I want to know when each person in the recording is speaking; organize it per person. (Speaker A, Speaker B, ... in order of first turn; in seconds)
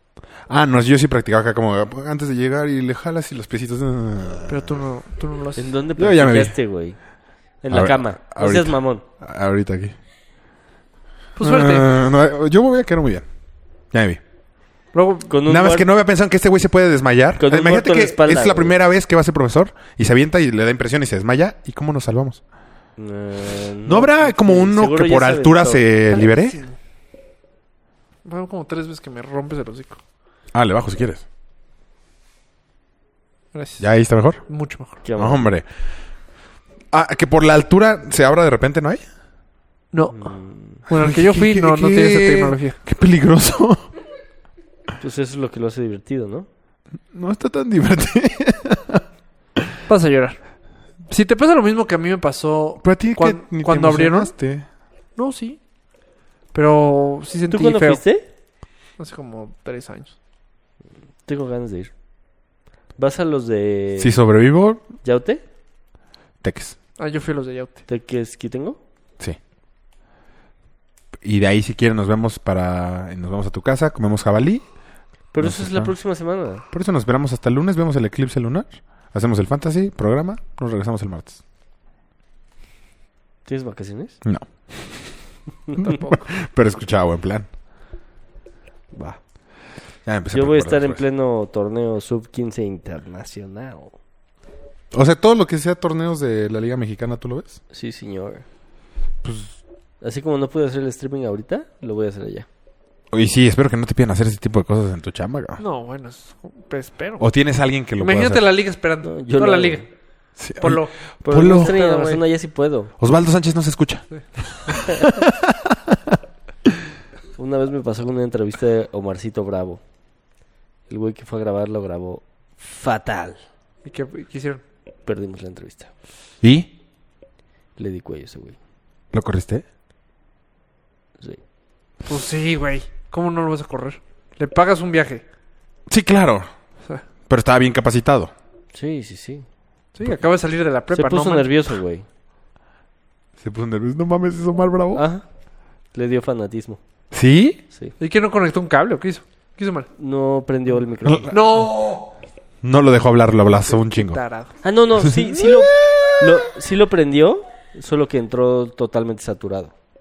Speaker A: 0.5-4.8, 6.0-6.6, 7.7-9.9, 11.4-13.2, 13.9-14.2, 15.4-22.4, 23.8-26.6, 30.5-31.2, 33.8-34.4, 35.2-35.6, 36.9-39.0, 40.9-43.9, 47.1-49.0, 52.8-54.6, 64.0-64.8, 66.4-66.8, 71.2-74.6, 75.4-75.9, 76.7-81.4, 84.2-85.1, 85.7-87.5, 90.0-91.0, 94.9-97.6, 99.2-99.6, 103.1-105.6, 107.2-108.4, 110.4-111.8, 113.0-116.2, 126.4-126.7, 129.1-129.6, 135.9-136.5, 137.3-138.3, 143.4-145.0, 147.1-147.6, 152.6-154.2
Speaker B: 4.5-5.7, 11.4-11.9, 14.9-15.3, 26.1-26.8, 28.2-30.0, 33.5-33.9, 34.5-35.0, 39.9-40.3, 40.9-42.8, 49.9-50.4, 51.1-54.3, 55.1-55.6, 56.5-58.0, 59.0-60.1, 67.0-67.8, 85.8-86.3, 105.6-107.2, 108.0-109.8, 110.6-112.2, 123.8-124.6, 132.0-135.2, 139.9-141.5, 148.0-149.9, 151.3-152.1, 153.7-154.5
Speaker C: 5.6-7.0, 7.6-9.0, 15.3-15.9, 17.4-18.8, 23.0-25.9, 35.0-35.5, 40.1-40.8, 45.0-46.5, 57.5-58.2, 61.2-61.9, 63.0-64.2, 65.0-65.4, 67.9-68.8, 75.3-76.6, 83.5-84.2, 88.9-89.2, 90.3-93.9, 97.7-98.4, 100.0-102.5, 109.0-109.8, 111.2-112.9, 117.4-119.8, 120.9-123.4, 125.0-125.9, 127.8-128.6, 138.7-139.4, 140.9-142.0, 144.9-145.2, 145.9-146.8, 150.0-151.3, 154.6-159.7